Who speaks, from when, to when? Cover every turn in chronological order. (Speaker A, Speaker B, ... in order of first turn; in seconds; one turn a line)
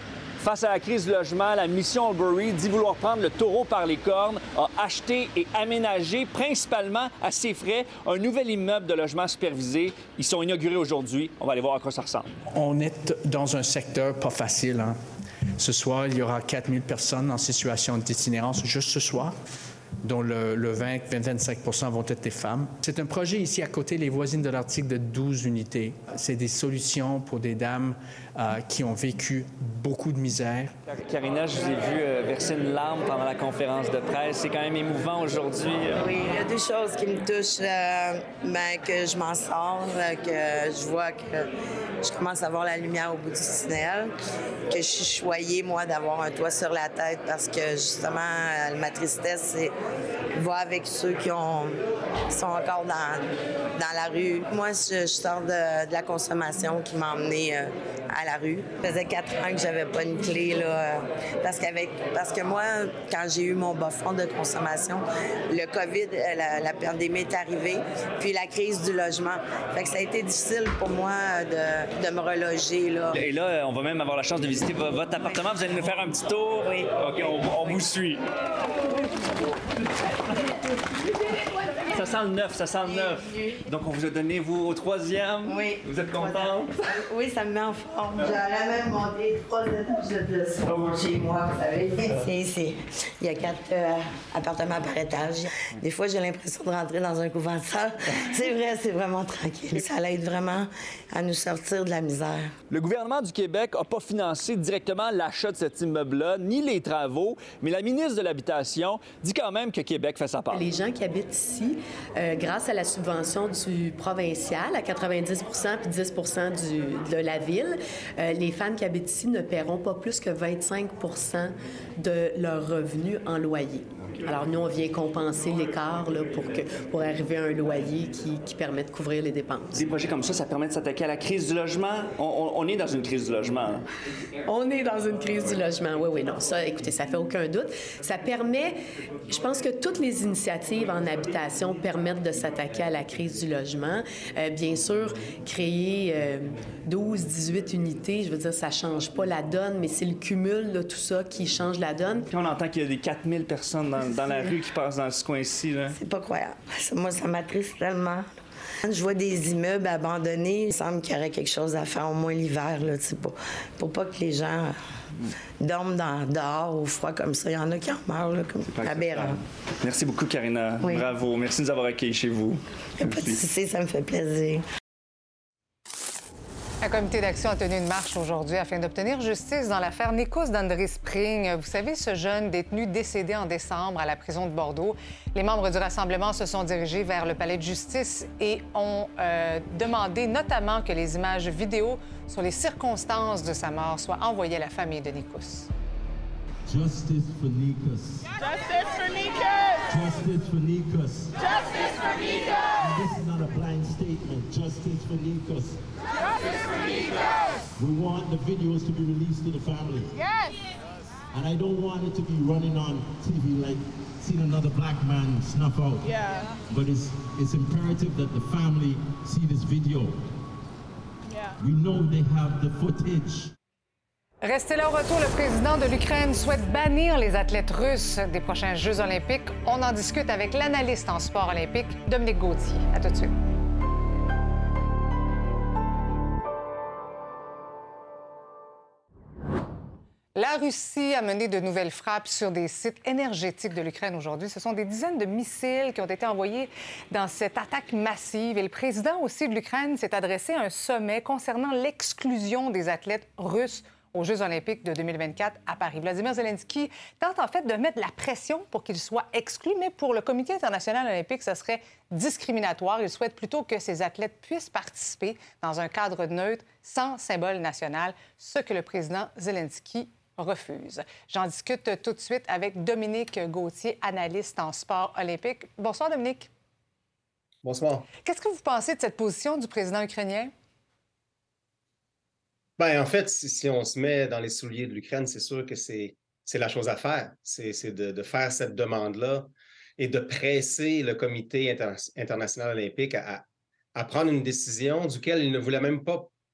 Speaker A: 0.4-12.3
Speaker B: 12.5-15.0
Speaker B: 15.6-19.3
Speaker B: 20.0-30.8
Speaker A: 30.9-36.0
Speaker C: 36.0-41.5
Speaker C: 42.0-44.1
Speaker C: 44.7-49.7
Speaker C: 50.4-51.8
Speaker C: 52.3-53.2
Speaker C: 53.8-73.2
Speaker A: 73.1-78.2
Speaker A: 81.9-86.7
Speaker C: 82.8-83.5
Speaker C: 85.4-102.5
Speaker A: 102.7-110.6
Speaker D: 110.5-129.8
Speaker A: 129.7-133.8
Speaker D: 134.5-138.8
Speaker D: 139.3-152.3
Speaker A: 152.3-155.9
Speaker C: 155.9-158.2
Speaker C: 158.8-164.7
Speaker C: 165.6-169.4
Speaker A: 168.7-173.4
Speaker C: 170.8-171.1
Speaker C: 173.0-174.6
Speaker E: 176.8-195.7
Speaker F: 196.7-198.3
Speaker F: 199.9-201.4
Speaker F: 202.8-205.8
Speaker F: 207.8-210.1
Speaker F: 211.3-216.1
Speaker F: 216.7-220.2
Speaker F: 221.6-223.5
Speaker E: 224.4-233.3
Speaker E: 240.3-276.5
Speaker G: 277.6-278.1
Speaker E: 278.2-280.5
Speaker G: 282.8-293.4
Speaker G: 293.9-296.3